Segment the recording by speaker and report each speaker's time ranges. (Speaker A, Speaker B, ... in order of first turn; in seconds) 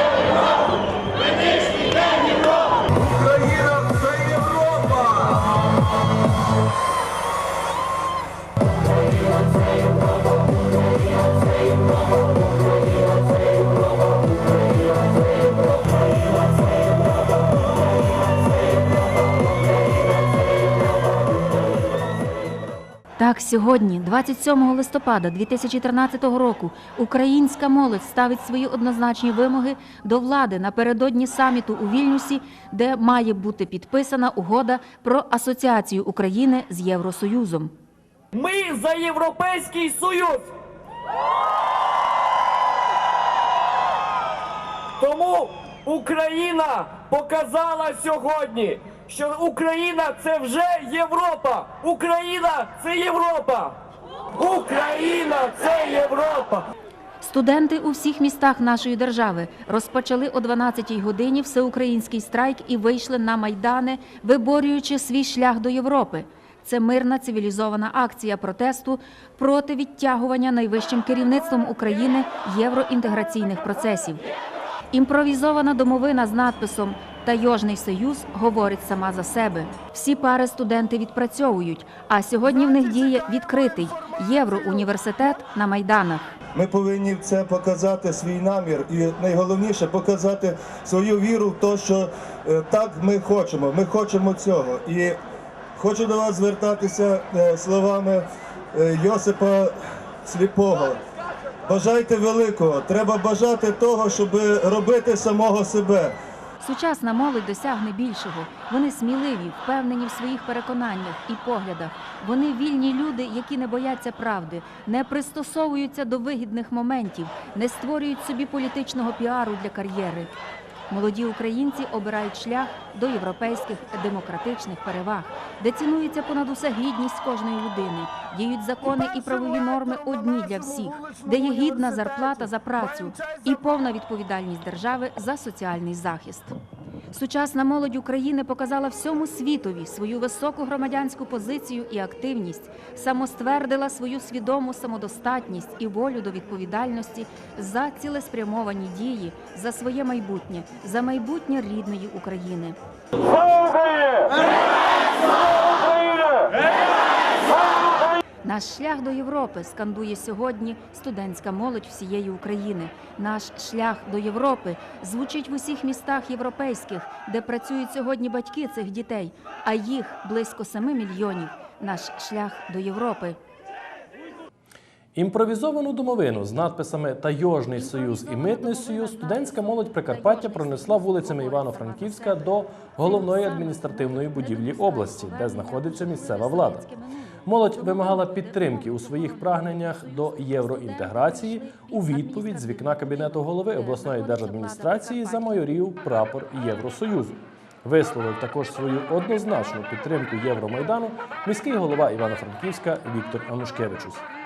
Speaker A: 3.1-5.0, 86.5-95.2, 95.8-101.0, 101.7-106.2, 129.5-132.0, 133.0-133.4
Speaker B: 23.2-37.7, 57.2-74.2, 74.9-86.3, 106.6-120.3, 120.9-136.6, 137.1-152.8, 158.4-173.4, 177.8-195.7
Speaker C: 38.3-40.5, 45.0-53.8, 54.3-56.7
Speaker D: 175.2-186.8, 187.5-204.2